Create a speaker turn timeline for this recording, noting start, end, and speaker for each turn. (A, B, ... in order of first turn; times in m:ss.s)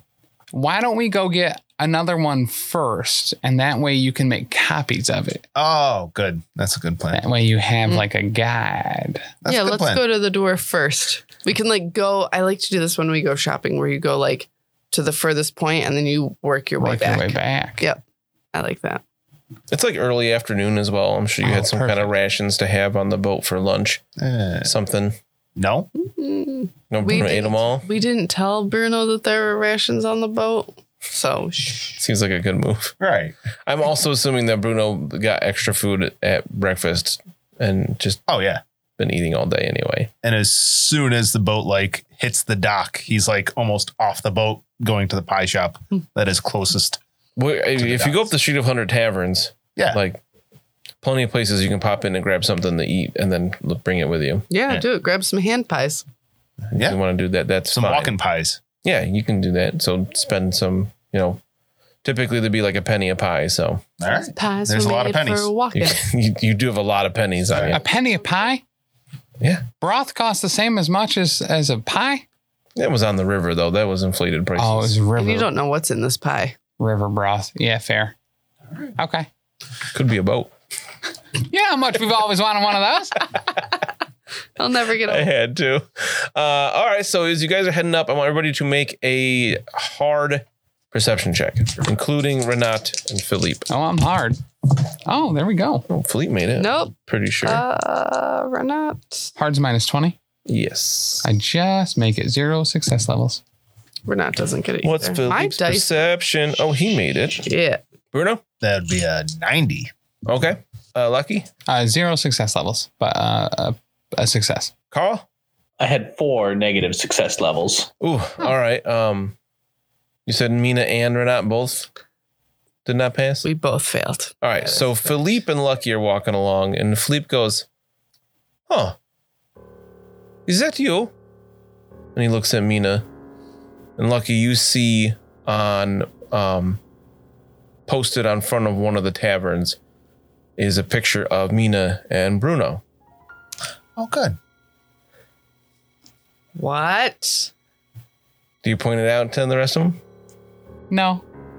0:00.5-0:05.4 A
0:05.5-0:07.2 B
0:07.1-0:09.3 A
0:09.4-0:10.0 B
0:09.5-0:18.0 C
0:16.8-0:17.8 A
0:18.5-0:19.0 C
0:19.7-0:24.0 D
0:21.4-0:22.1 A
0:24.2-0:24.7 B
0:24.6-0:25.2 D
0:25.6-0:25.9 B
0:25.9-0:32.0 C
0:26.9-0:27.8 D
0:32.0-0:32.9 D
0:33.0-0:33.3 B
0:33.6-0:38.2 D
0:38.3-0:38.6 B
0:39.0-0:40.1 D
0:40.2-0:47.0 B
0:47.4-0:50.2 D
0:47.8-0:48.3 B
0:51.0-0:54.5 D
0:54.5-0:56.0 C
0:56.7-0:57.0 B
0:56.8-0:58.2 D
0:57.7-0:58.6 B
0:58.8-1:01.4 D
1:02.0-1:03.8 D
1:04.0-1:05.5 B
1:04.2-1:06.0 C
1:05.7-1:07.8 D
1:07.5-1:07.8 B
1:07.7-1:08.6 A
1:09.4-1:09.7 D
1:09.8-1:12.2 A
1:12.8-1:14.9 D
1:14.6-1:15.5 A
1:15.2-1:16.6 C
1:16.8-1:18.1 A
1:19.0-1:19.3 A
1:19.9-1:20.5 D
1:21.5-1:23.3 A
1:24.6-1:25.3 C
1:25.0-1:33.7 D
1:33.7-1:34.4 A
1:35.0-1:35.9 A
1:35.9-1:37.6 D
1:36.6-1:39.3 C
1:39.4-1:40.2 A
1:40.4-1:41.3 D
1:41.2-1:43.4 A
1:44.1-1:46.0 C
1:44.8-1:47.4 D
1:47.4-1:47.8 C
1:48.1-1:48.4 D
1:48.6-1:49.9 B
1:50.2-1:51.5 D
1:51.7-1:54.7 A
1:54.9-1:55.2 D
1:55.8-1:57.9 E
1:58.0-1:59.4 D
2:00.2-2:01.9 D
2:02.8-2:03.4 D
2:03.4-2:05.1 C
2:04.4-2:07.6 D
2:08.7-2:09.0 D
2:10.5-2:11.1 D
2:12.1-2:13.0 D
2:14.0-2:16.8 D
2:17.9-2:19.8 D
2:20.6-2:22.8 D
2:24.0-2:24.4 B
2:26.5-2:27.5 C
2:28.6-2:30.0 D
2:30.9-2:31.2 A